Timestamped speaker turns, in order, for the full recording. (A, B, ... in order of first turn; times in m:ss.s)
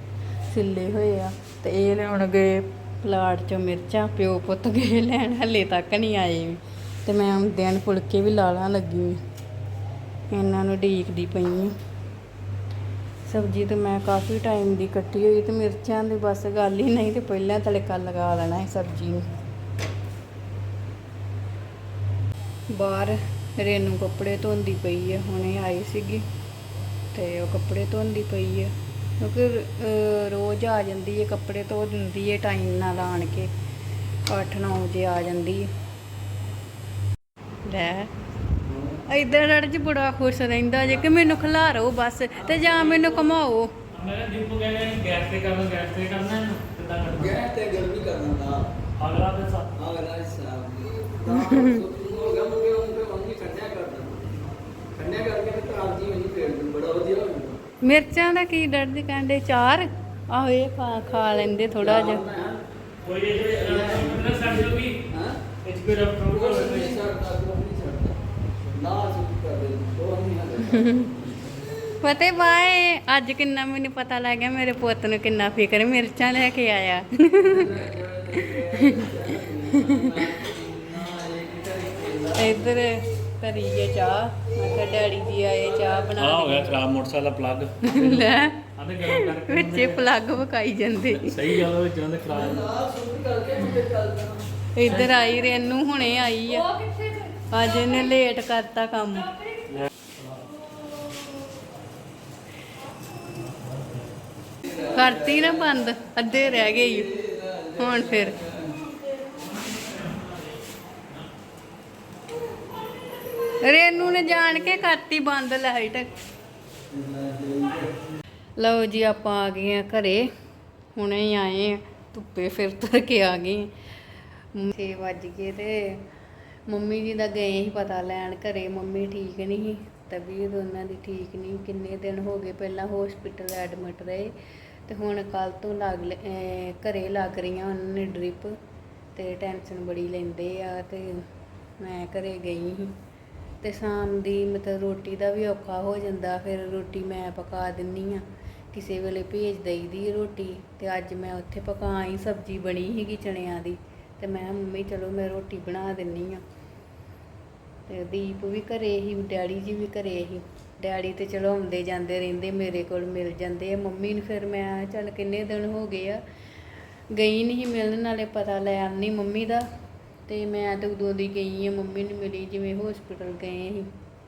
0:00.5-0:09.2 A
0:10.3-0:11.7 A
0:13.3-0:19.3 A
0:22.7-0:26.2 A
0:27.1-0:33.5 A
0:34.3-0:35.7 A
0:37.6-0:38.1 A
0:38.6-0:39.0 B
0:39.1-0:43.8 A
0:42.4-0:43.1 B
0:43.9-0:47.5 C
0:47.2-0:48.7 B
0:49.0-0:49.7 C
0:49.8-0:54.3 B
0:51.3-0:51.9 A
0:55.0-0:57.6 B
0:57.8-1:02.2 A
1:01.8-1:02.6 B
1:03.0-1:05.0 C
1:03.6-1:05.4 B
1:05.6-1:07.0 C
1:06.3-1:11.2 B
1:10.7-1:11.1 A
1:12.0-1:17.7 A
1:17.4-1:22.6 B
1:18.4-1:20.4 A
1:22.4-1:26.8 A
1:26.2-1:30.1 C
1:27.8-1:31.7 A
1:31.2-1:32.7 C
1:32.3-1:34.4 B
1:34.8-1:39.3 A
1:34.9-1:35.2 C
1:39.7-1:40.4 C
1:44.6-1:45.5 B
1:44.7-1:47.2 A
1:46.6-1:48.7 B
1:47.7-1:48.5 A
1:49.3-1:50.2 C
1:53.6-1:56.1 A
1:56.9-1:57.9 B
1:58.6-2:00.2 A
2:01.0-2:03.7 A
2:04.5-2:06.1 A
2:06.7-2:18.6 A
2:19.1-2:23.0 A
2:23.6-2:36.4 A
2:37.9-2:46.2 A
2:47.1-2:49.7 A
2:50.3-2:53.9 A